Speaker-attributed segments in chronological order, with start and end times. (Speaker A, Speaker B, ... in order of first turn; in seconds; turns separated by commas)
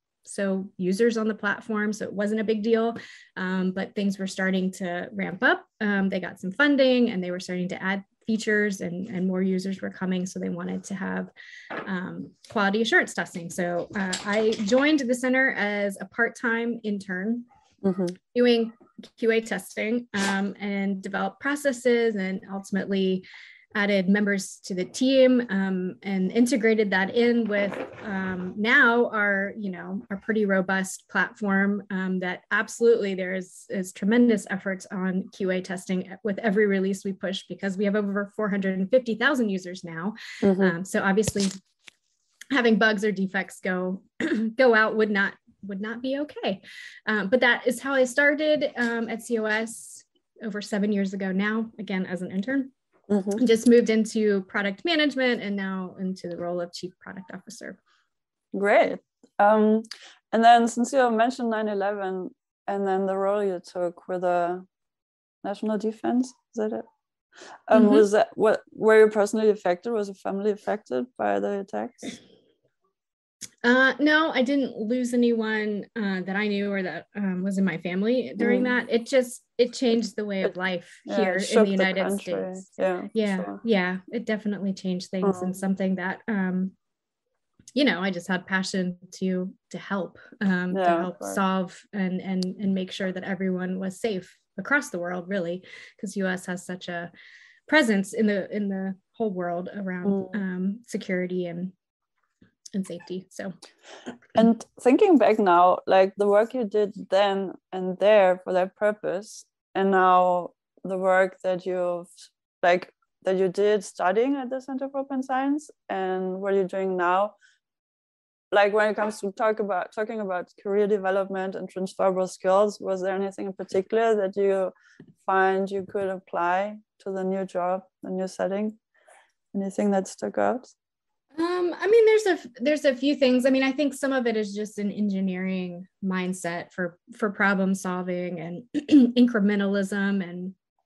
Speaker A: 0.2-17.5, Speaker B: 17.8-18.1, Speaker A: 18.3-41.6, Speaker B: 40.4-40.7, Speaker A: 42.5-52.7, Speaker B: 53.1-53.4, Speaker A: 53.4-57.8, Speaker B: 58.5-64.7, Speaker B: 65.4-66.8, Speaker B: 67.7-72.2, Speaker A: 67.8-68.0, Speaker A: 73.6-86.7, Speaker B: 78.4-78.7, Speaker B: 81.1-83.6, Speaker B: 85.2-85.6, Speaker A: 87.8-97.1, Speaker B: 90.7-91.4, Speaker A: 97.7-101.7, Speaker B: 100.1-100.3, Speaker A: 102.8-103.5, Speaker B: 104.3-117.3, Speaker B: 118.5-124.7, Speaker B: 125.2-128.8, Speaker B: 129.5-130.7, Speaker A: 131.4-140.5